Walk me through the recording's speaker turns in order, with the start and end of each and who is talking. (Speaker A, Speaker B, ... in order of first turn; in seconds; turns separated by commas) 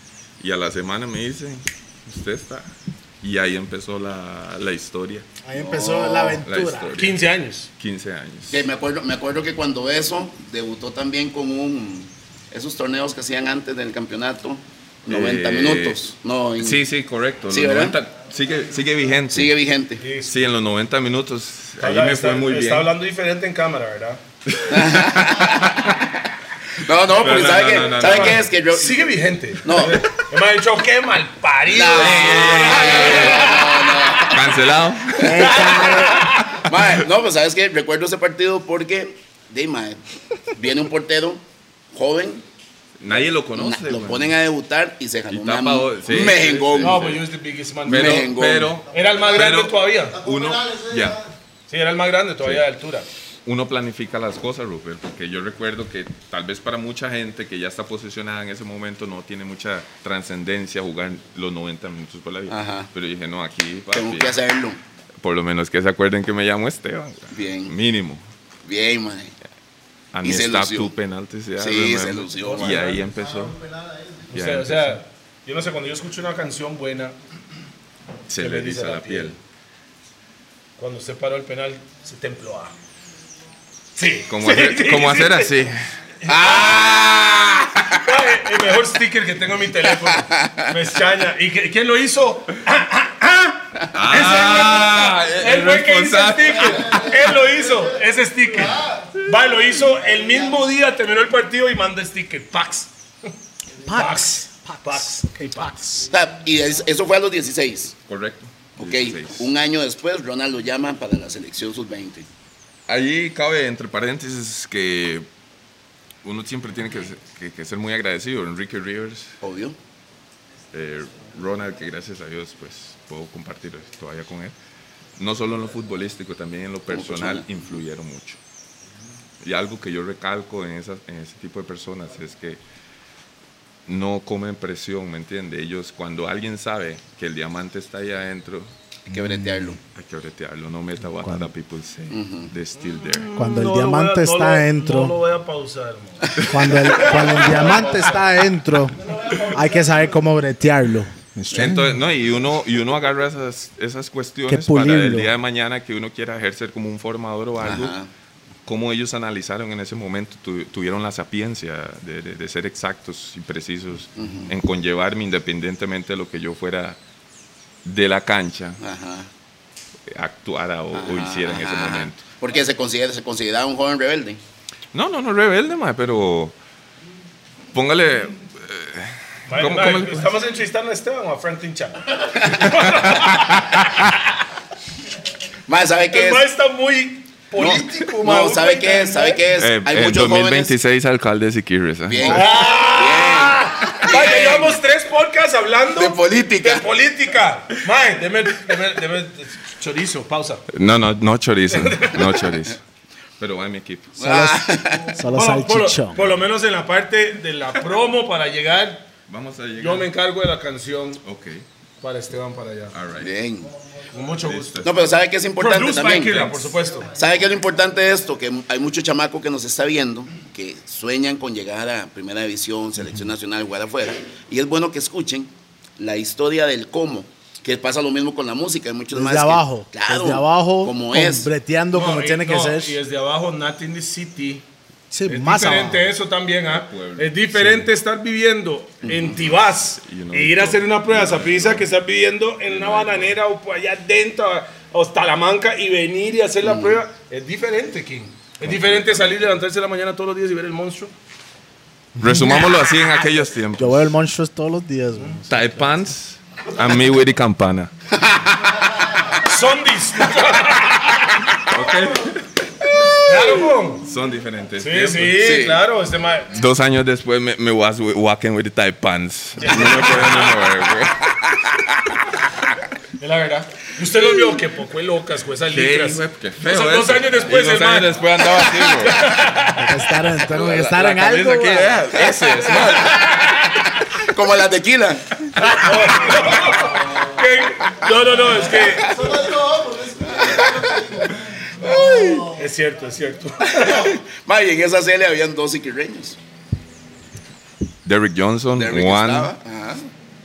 Speaker A: 0.4-5.3, Speaker B: 5.5-7.0, Speaker C: 5.5-6.4, Speaker A: 6.4-7.2, Speaker D: 7.0-7.7, Speaker A: 7.8-8.6, Speaker C: 8.5-16.8, Speaker A: 15.1-16.0, Speaker A: 16.6-19.5, Speaker C: 17.5-18.0, Speaker C: 19.3-20.0, Speaker D: 20.0-20.4, Speaker A: 20.3-22.9, Speaker D: 21.8-24.2, Speaker A: 24.5-25.9, Speaker C: 24.7-25.9, Speaker C: 26.8-29.1, Speaker A: 27.1-28.5, Speaker D: 27.8-34.0, Speaker C: 29.6-30.1, Speaker C: 31.7-34.5, Speaker A: 31.9-35.5, Speaker B: 35.2-36.3, Speaker C: 35.2-35.6, Speaker D: 35.3-36.6, Speaker C: 36.6-42.5, Speaker A: 43.0-44.4, Speaker C: 43.1-47.0, Speaker A: 45.3-47.3, Speaker D: 46.8-48.3, Speaker A: 47.9-51.2, Speaker C: 47.9-48.7, Speaker D: 48.9-50.2, Speaker D: 51.7-53.1, Speaker A: 53.5-64.4, Speaker C: 62.5-62.9, Speaker C: 63.9-64.8, Speaker A: 65.2-68.2, Speaker C: 67.3-67.8, Speaker C: 68.7-69.3, Speaker A: 70.1-73.6, Speaker C: 70.2-70.9, Speaker C: 71.6-72.9, Speaker D: 72.4-73.1, Speaker D: 74.3-77.2, Speaker A: 74.3-75.0, Speaker A: 78.3-79.4, Speaker D: 78.4-79.4, Speaker D: 80.8-82.7, Speaker D: 84.0-85.5, Speaker A: 84.3-85.8, Speaker D: 86.2-87.0, Speaker C: 86.3-88.0, Speaker D: 88.0-102.9, Speaker C: 89.8-90.7, Speaker A: 93.9-97.3, Speaker B: 103.8-106.1, Speaker D: 103.9-106.0, Speaker C: 106.1-108.0, Speaker A: 108.1-109.5, Speaker C: 108.8-112.3, Speaker A: 112.9-115.3, Speaker A: 116.2-119.3, Speaker C: 119.4-119.8, Speaker A: 120.7-124.5, Speaker A: 125.2-128.4, Speaker C: 126.9-127.6, Speaker A: 129.4-132.6, Speaker A: 133.9-138.7, Speaker C: 139.1-139.8, Speaker B: 139.1-139.8, Speaker A: 139.9-143.3, Speaker B: 141.1-141.5, Speaker C: 142.1-142.5, Speaker D: 142.9-146.4, Speaker B: 143.3-145.2, Speaker A: 146.4-147.3, Speaker B: 146.4-152.0, Speaker D: 146.9-148.2, Speaker D: 149.0-149.7, Speaker A: 151.5-158.0, Speaker B: 154.5-155.3, Speaker C: 157.6-158.1, Speaker A: 158.7-167.0, Speaker C: 164.2-164.5, Speaker A: 167.8-168.8, Speaker C: 168.8-169.3, Speaker A: 170.1-172.2, Speaker C: 170.9-174.4, Speaker A: 174.9-176.6, Speaker A: 177.7-180.3, Speaker D: 179.5-183.8, Speaker C: 182.4-183.1, Speaker A: 182.7-184.1, Speaker C: 185.7-186.5, Speaker D: 186.1-189.4, Speaker C: 187.6-190.7, Speaker A: 189.6-192.5, Speaker C: 192.1-194.8, Speaker D: 192.3-200.6, Speaker C: 196.0-196.9, Speaker A: 200.7-202.8, Speaker D: 201.7-202.4, Speaker A: 203.4-204.2, Speaker C: 204.2-205.2, Speaker B: 204.2-206.2, Speaker D: 205.3-209.1, Speaker A: 209.3-210.1, Speaker D: 209.8-211.2, Speaker A: 211.2-211.6, Speaker D: 212.0-212.9, Speaker A: 212.9-213.3, Speaker C: 213.2-213.7, Speaker D: 214.1-214.8, Speaker A: 214.4-214.9, Speaker C: 214.8-231.5, Speaker D: 215.6-217.1, Speaker B: 229.1-232.9, Speaker D: 231.9-234.7, Speaker B: 235.1-236.1, Speaker D: 235.3-251.1, Speaker A: 236.7-237.9, Speaker C: 239.0-239.4, Speaker A: 239.3-241.9, Speaker A: 242.7-243.4, Speaker C: 246.6-247.0, Speaker A: 248.6-249.6, Speaker B: 252.2-252.8, Speaker A: 252.2-254.1, Speaker B: 253.8-255.7, Speaker A: 255.5-257.9, Speaker C: 258.1-258.8, Speaker D: 259.4-261.2, Speaker A: 261.6-265.4, Speaker D: 263.2-264.1, Speaker D: 264.8-266.5, Speaker C: 265.4-265.8, Speaker A: 266.5-271.4, Speaker D: 269.6-270.6, Speaker C: 269.7-270.6, Speaker C: 271.3-272.2, Speaker D: 273.2-280.1, Speaker A: 275.7-279.3, Speaker B: 279.8-282.1, Speaker A: 280.5-283.4, Speaker C: 282.6-283.1, Speaker D: 282.8-283.9, Speaker C: 284.1-285.4, Speaker D: 285.6-289.2, Speaker C: 288.5-292.5, Speaker B: 291.9-292.3, Speaker D: 292.5-294.1, Speaker C: 293.6-296.4, Speaker A: 298.1-299.5, Speaker C: 298.8-300.1